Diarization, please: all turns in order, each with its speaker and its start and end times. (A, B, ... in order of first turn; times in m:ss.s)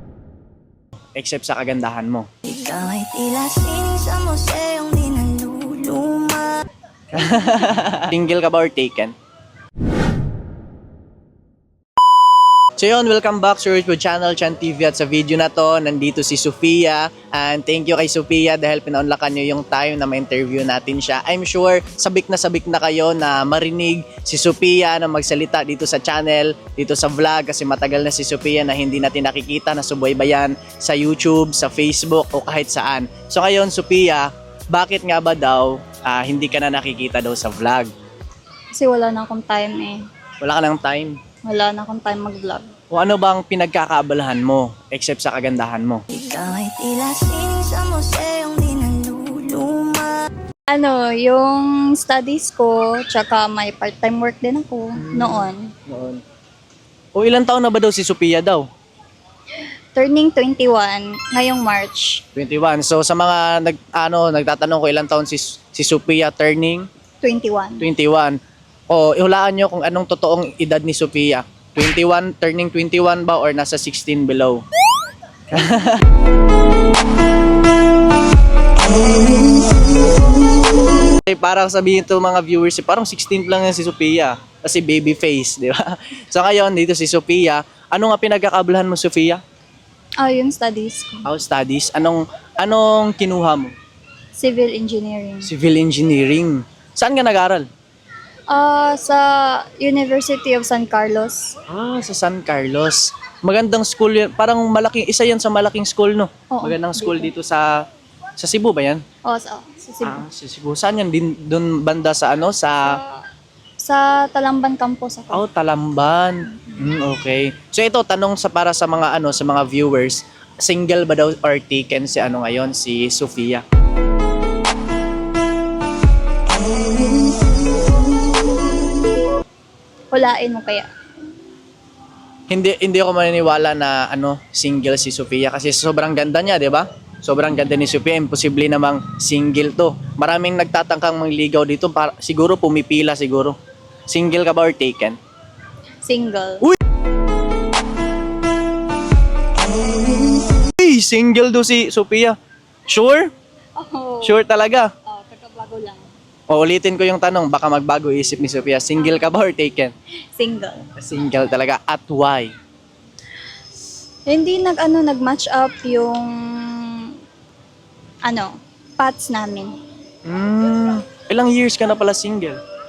0:01.2-0:02.3 A
0:02.4-0:06.6 B
0:07.1-0:09.1 A
0:12.8-0:37.9 A
0:38.7-0:40.0 C
0:40.4-0:41.2 A
0:41.4-0:42.7 C
0:42.9-0:46.0 A
0:46.1-0:50.2 B
0:50.7-0:55.7 C
0:55.0-0:56.2 A
0:57.1-0:58.6 A
0:59.9-1:02.2 C
1:02.3-1:06.9 A
1:07.2-1:07.9 C
1:07.8-1:08.4 A
1:08.9-1:14.6 A
1:15.5-1:16.0 A
1:21.3-1:29.4 A
1:30.2-1:31.3 C
1:31.2-1:33.7 A
1:34.3-1:35.5 C
1:35.4-1:37.6 A
1:38.5-1:41.6 C
1:41.7-1:47.7 A
1:46.5-1:47.3 C
1:48.4-1:49.0 A
1:49.2-1:50.2 C
1:50.0-1:53.0 A
1:52.8-1:53.2 C
1:53.8-1:55.4 C
1:55.3-2:03.6 A
1:56.5-1:56.9 C
2:10.1-2:10.9 C
2:12.5-2:23.6 A
2:24.1-2:25.2 A
2:26.0-2:26.6 C
2:30.8-2:32.4 A
2:32.9-2:33.3 A
2:33.8-2:34.4 C
2:34.2-2:34.9 A
2:35.0-2:36.0 C
2:36.5-2:39.9 A
2:40.4-2:40.9 C
2:41.0-2:42.5 A
2:44.3-2:47.1 C
2:48.2-2:49.7 C
2:50.2-2:52.6 A